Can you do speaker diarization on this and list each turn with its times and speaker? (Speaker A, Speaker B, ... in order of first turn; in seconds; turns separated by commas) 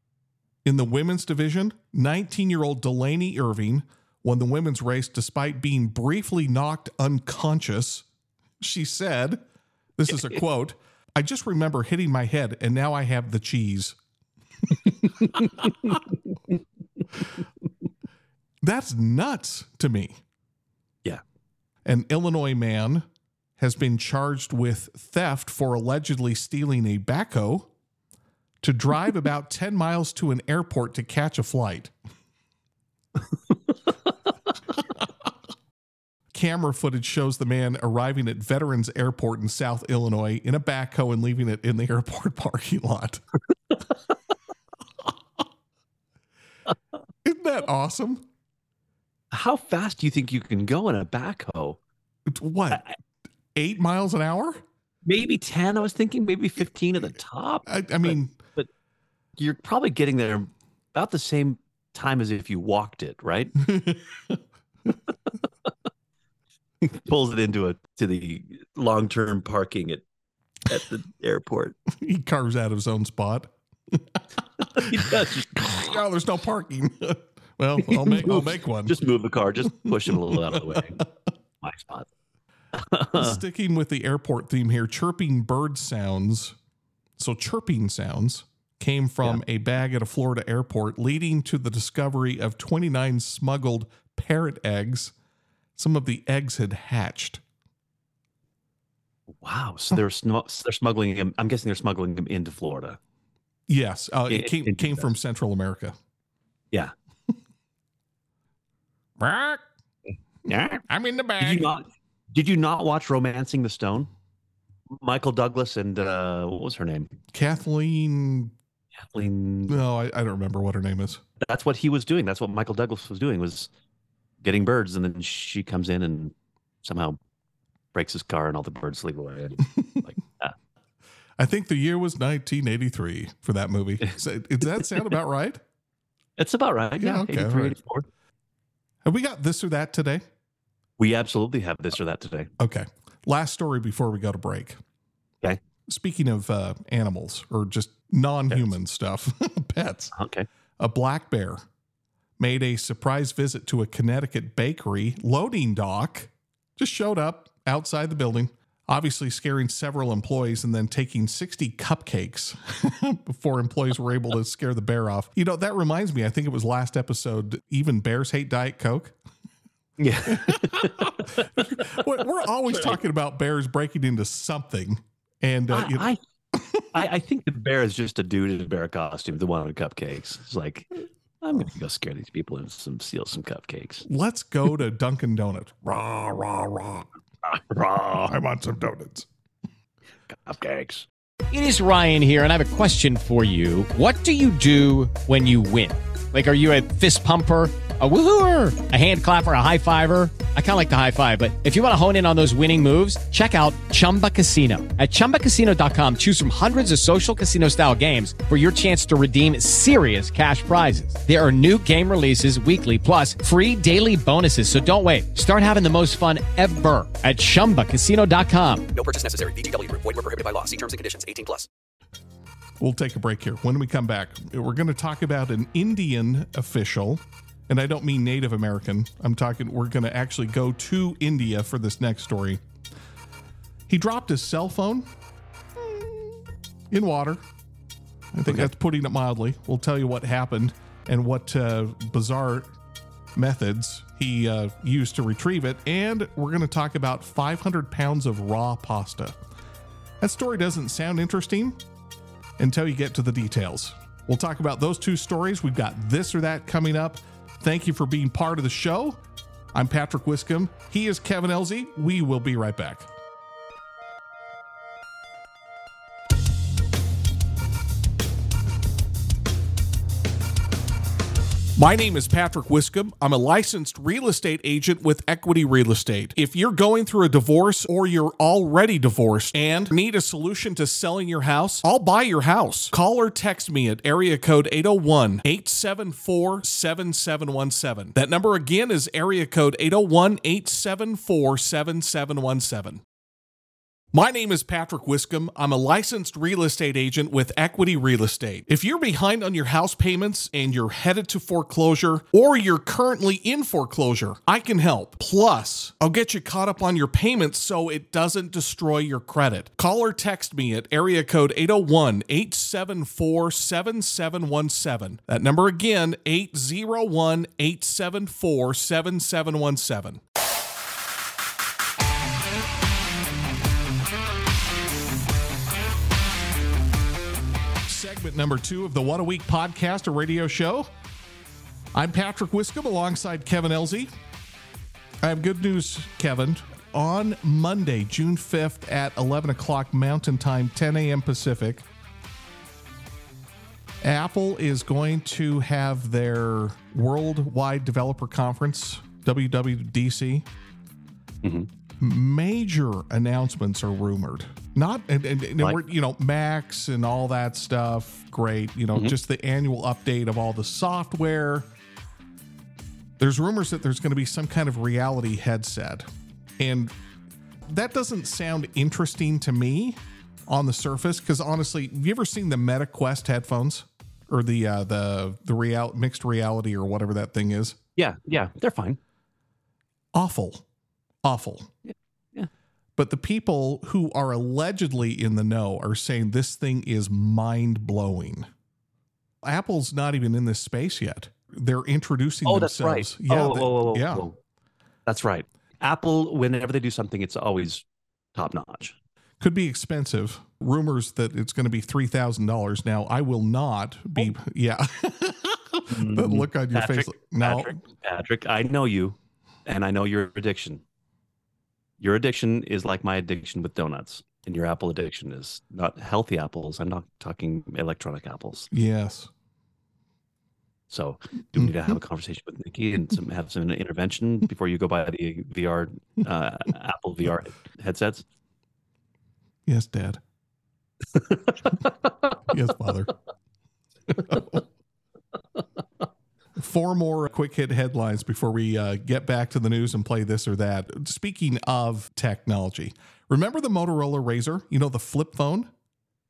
Speaker A: 0.7-8.1, Speaker A: 8.6-9.4, Speaker A: 10.0-14.0, Speaker A: 15.0-15.9, Speaker B: 15.4-16.0, Speaker A: 18.6-20.2, Speaker A: 21.9-23.1, Speaker A: 23.6-27.7, Speaker A: 28.6-31.9, Speaker A: 36.3-43.2, Speaker A: 47.2-48.3, Speaker B: 49.3-51.8, Speaker A: 52.3-52.8, Speaker A: 53.5-54.6, Speaker B: 55.1-58.7, Speaker A: 57.7-58.4, Speaker B: 59.4-63.5, Speaker A: 63.6-64.4, Speaker B: 66.8-70.0, Speaker B: 70.7-71.8, Speaker A: 71.9-74.2, Speaker A: 74.7-79.0, Speaker B: 74.7-75.9, Speaker B: 77.8-81.0, Speaker A: 79.7-81.1, Speaker B: 81.6-82.1, Speaker B: 82.7-83.4, Speaker A: 83.2-86.6, Speaker A: 87.2-95.1, Speaker A: 95.8-97.4, Speaker B: 99.4-103.0, Speaker A: 103.7-106.0, Speaker B: 104.3-105.1, Speaker A: 109.2-109.6, Speaker B: 110.5-110.8, Speaker A: 110.9-111.7, Speaker B: 111.4-114.1, Speaker B: 115.0-117.1, Speaker A: 117.3-118.5, Speaker B: 119.0-119.8, Speaker A: 119.7-121.2, Speaker B: 121.4-123.7, Speaker B: 124.4-127.2, Speaker B: 127.9-130.5, Speaker A: 131.4-135.6, Speaker B: 136.4-138.1, Speaker A: 137.0-137.8, Speaker A: 139.0-140.2, Speaker B: 141.0-142.5, Speaker A: 142.6-144.8, Speaker A: 145.9-150.2, Speaker B: 150.1-150.5, Speaker A: 150.8-151.7, Speaker A: 152.4-169.2, Speaker B: 170.0-172.0, Speaker A: 170.3-176.9, Speaker B: 172.7-173.0, Speaker B: 175.7-176.2, Speaker B: 176.9-180.9, Speaker B: 181.4-184.1, Speaker A: 184.1-187.1, Speaker B: 187.4-188.3, Speaker A: 188.2-189.3, Speaker B: 190.3-191.1, Speaker C: 191.5-218.9, Speaker D: 218.9-221.7, Speaker A: 222.8-232.6, Speaker A: 233.9-235.1, Speaker A: 235.8-236.3, Speaker A: 236.9-237.4, Speaker A: 238.3-242.7, Speaker A: 243.3-249.4, Speaker A: 250.2-251.8, Speaker A: 252.6-259.2, Speaker A: 259.7-263.1, Speaker A: 271.8-293.0, Speaker A: 294.1-320.2, Speaker A: 327.9-330.9, Speaker A: 331.9-334.1, Speaker A: 335.2-341.9, Speaker A: 344.0-350.5, Speaker B: 351.4-351.7, Speaker A: 352.0-361.7, Speaker A: 363.2-366.1, Speaker A: 366.6-366.9, Speaker A: 367.7-377.8, Speaker B: 378.0-379.0, Speaker A: 380.1-380.7, Speaker A: 381.2-381.7, Speaker B: 381.9-382.5, Speaker A: 383.0-388.5, Speaker A: 389.4-394.3, Speaker B: 392.4-394.4, Speaker B: 395.1-397.8, Speaker B: 398.4-399.0, Speaker A: 399.4-407.8, Speaker B: 405.9-410.8, Speaker B: 412.0-418.7, Speaker A: 418.7-419.3, Speaker B: 420.9-428.2, Speaker A: 421.6-421.9, Speaker A: 429.7-430.2, Speaker B: 431.2-431.9, Speaker A: 432.5-433.1, Speaker A: 434.1-434.6, Speaker A: 436.6-445.7